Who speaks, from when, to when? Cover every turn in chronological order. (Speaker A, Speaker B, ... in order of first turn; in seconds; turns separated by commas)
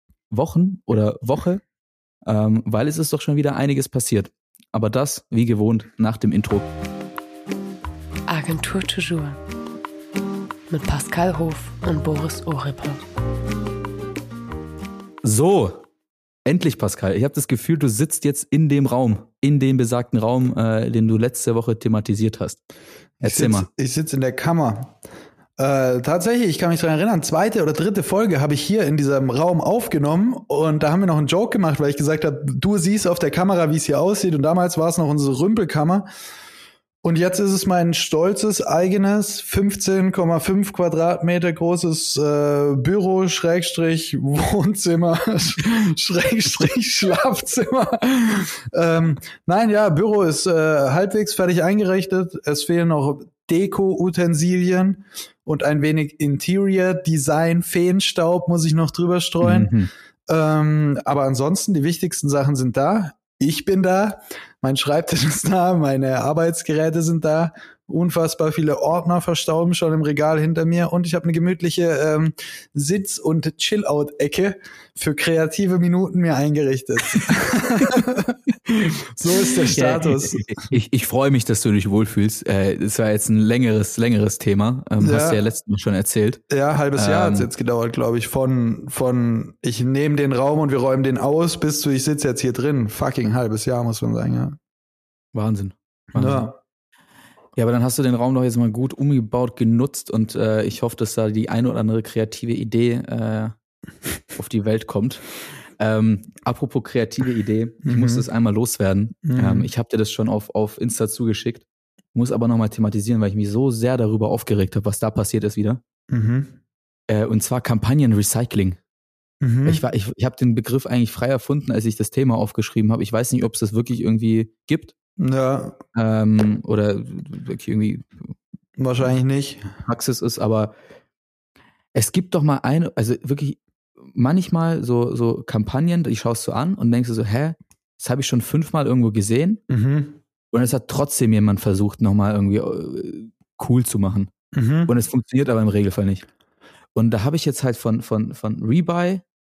Speaker A: 0.3-1.6, Speaker A: 2.2-6.7, Speaker B: 8.3-9.4, Speaker B: 10.7-13.0, Speaker A: 15.2-15.8, Speaker A: 16.4-22.6, Speaker A: 23.2-23.7, Speaker C: 23.2-24.9, Speaker C: 25.6-36.0, Speaker C: 37.0-59.7, Speaker A: 59.4-59.9, Speaker C: 60.3-80.7, Speaker A: 79.4-86.4, Speaker C: 85.0-85.4, Speaker C: 86.5-94.6, Speaker A: 87.0-87.5, Speaker A: 95.3-96.5, Speaker C: 96.1-96.5, Speaker A: 97.5-103.5, Speaker A: 104.3-115.8, Speaker C: 107.8-108.2, Speaker C: 109.2-109.7, Speaker C: 116.1-116.5, Speaker A: 117.1-118.8, Speaker C: 119.4-119.8, Speaker A: 119.7-124.9, Speaker C: 125.2-125.8, Speaker A: 125.9-128.3, Speaker C: 128.8-129.6, Speaker A: 129.8-130.7, Speaker A: 131.9-139.6, Speaker C: 139.7-140.2, Speaker A: 140.5-144.3, Speaker C: 144.5-144.9, Speaker A: 144.9-146.2, Speaker A: 146.9-149.2